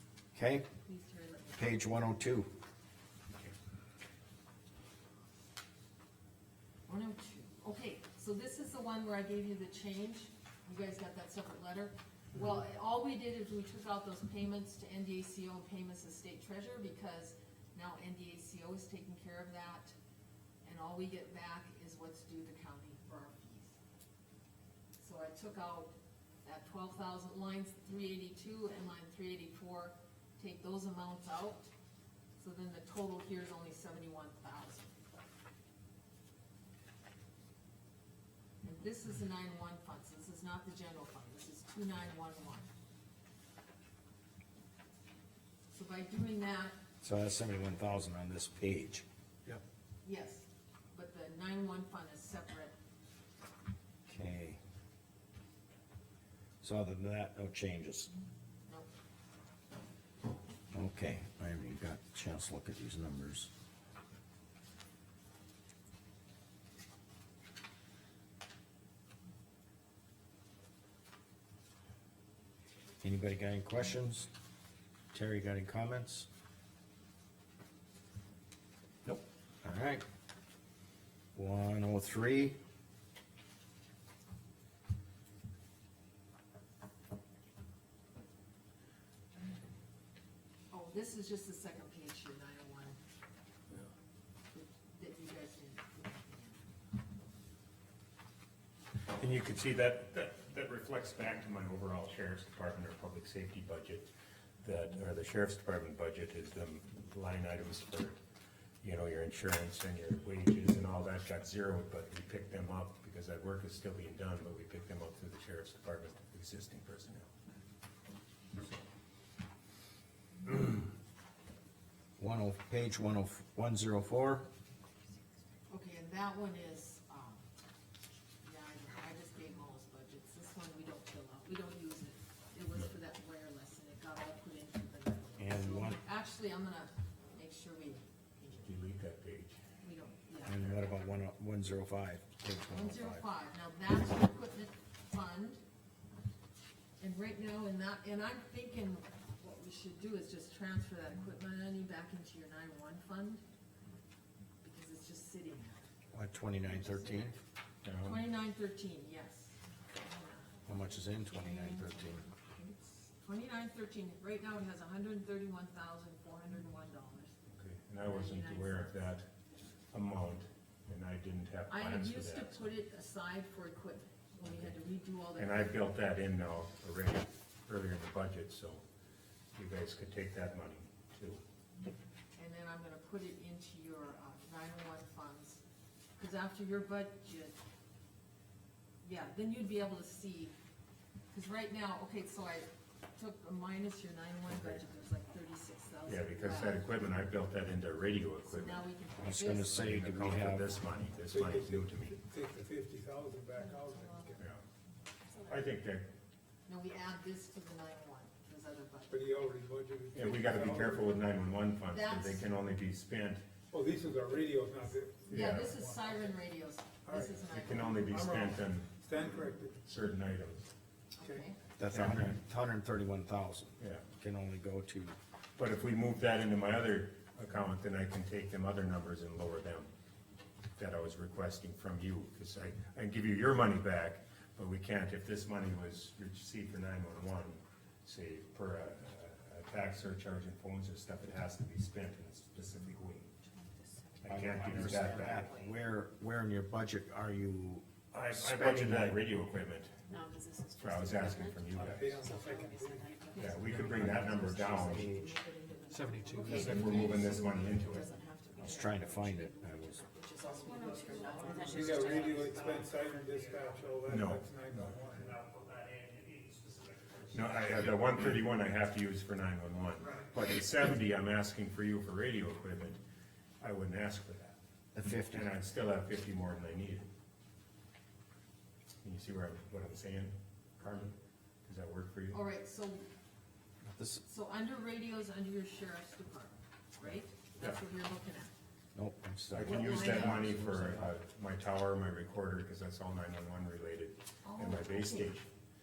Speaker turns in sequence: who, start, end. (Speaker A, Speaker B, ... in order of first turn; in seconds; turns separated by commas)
Speaker A: 0.3-0.7, Speaker B: 0.7-2.0, Speaker A: 1.5-2.5, Speaker B: 6.9-19.9, Speaker B: 20.6-23.8, Speaker B: 25.0-31.7, Speaker B: 32.4-35.0, Speaker B: 38.6-42.7, Speaker B: 45.7-46.8, Speaker A: 47.0-49.0, Speaker B: 50.0-52.7, Speaker A: 54.1-54.6, Speaker A: 56.6-58.1, Speaker A: 60.7-63.5, Speaker A: 73.0-74.3, Speaker A: 75.1-76.3, Speaker A: 79.0-80.0, Speaker A: 81.3-82.5, Speaker B: 90.7-93.0, Speaker B: 94.5-96.6, Speaker C: 99.1-104.1, Speaker C: 104.6-108.2, Speaker C: 108.8-117.3, Speaker A: 122.2-124.5, Speaker B: 125.7-127.4, Speaker B: 128.4-138.8, Speaker A: 135.4-136.0, Speaker C: 138.6-139.6, Speaker B: 139.8-140.8, Speaker A: 140.4-143.2, Speaker B: 142.7-145.6, Speaker B: 147.0-153.4, Speaker B: 154.6-155.9, Speaker A: 156.1-157.3, Speaker B: 156.7-157.3, Speaker C: 157.8-158.2, Speaker B: 158.0-167.3, Speaker A: 160.7-162.2, Speaker C: 167.5-169.3, Speaker B: 168.0-169.1, Speaker C: 169.9-172.7, Speaker B: 171.7-175.8, Speaker C: 174.5-174.7, Speaker C: 175.3-178.8, Speaker C: 179.5-181.4, Speaker B: 182.3-185.6, Speaker B: 186.2-187.6, Speaker B: 189.0-190.5, Speaker B: 191.3-196.8, Speaker C: 194.5-194.8, Speaker C: 196.0-198.9, Speaker B: 198.4-200.9, Speaker A: 199.2-200.7, Speaker C: 199.6-202.2, Speaker D: 201.3-204.4, Speaker B: 203.9-204.2, Speaker C: 204.3-204.6, Speaker C: 205.5-206.1, Speaker B: 206.7-209.2, Speaker D: 209.1-211.2, Speaker C: 210.1-213.4, Speaker B: 211.9-212.5, Speaker D: 213.7-216.3, Speaker B: 215.3-218.0, Speaker C: 215.3-215.7, Speaker D: 217.1-219.8, Speaker C: 217.5-219.0, Speaker C: 219.8-220.7, Speaker B: 221.2-221.6, Speaker D: 221.2-221.5, Speaker A: 221.8-225.2, Speaker C: 221.8-222.3, Speaker C: 223.8-224.1, Speaker C: 225.6-229.9, Speaker C: 230.8-243.3, Speaker E: 243.4-245.6, Speaker C: 244.2-245.4, Speaker A: 244.2-249.2, Speaker C: 248.1-249.9, Speaker E: 250.1-262.5, Speaker C: 250.8-252.2, Speaker D: 251.8-254.1, Speaker C: 253.3-255.1, Speaker F: 254.1-254.4, Speaker A: 254.9-255.3, Speaker F: 255.9-257.5, Speaker B: 256.2-258.1, Speaker C: 256.5-258.1, Speaker A: 258.6-260.0, Speaker B: 258.6-259.2, Speaker F: 260.4-264.1, Speaker B: 260.4-261.7, Speaker D: 261.1-265.4, Speaker C: 264.1-265.0, Speaker F: 265.0-268.1, Speaker C: 267.3-273.0, Speaker F: 270.0-270.3, Speaker C: 273.6-274.6, Speaker A: 274.9-275.5, Speaker C: 275.3-277.1, Speaker C: 279.0-282.4, Speaker B: 282.3-283.1, Speaker A: 283.9-284.2, Speaker B: 284.2-288.5, Speaker C: 287.0-287.8, Speaker A: 288.9-291.1, Speaker C: 289.5-295.5, Speaker B: 289.6-290.6, Speaker B: 294.4-295.3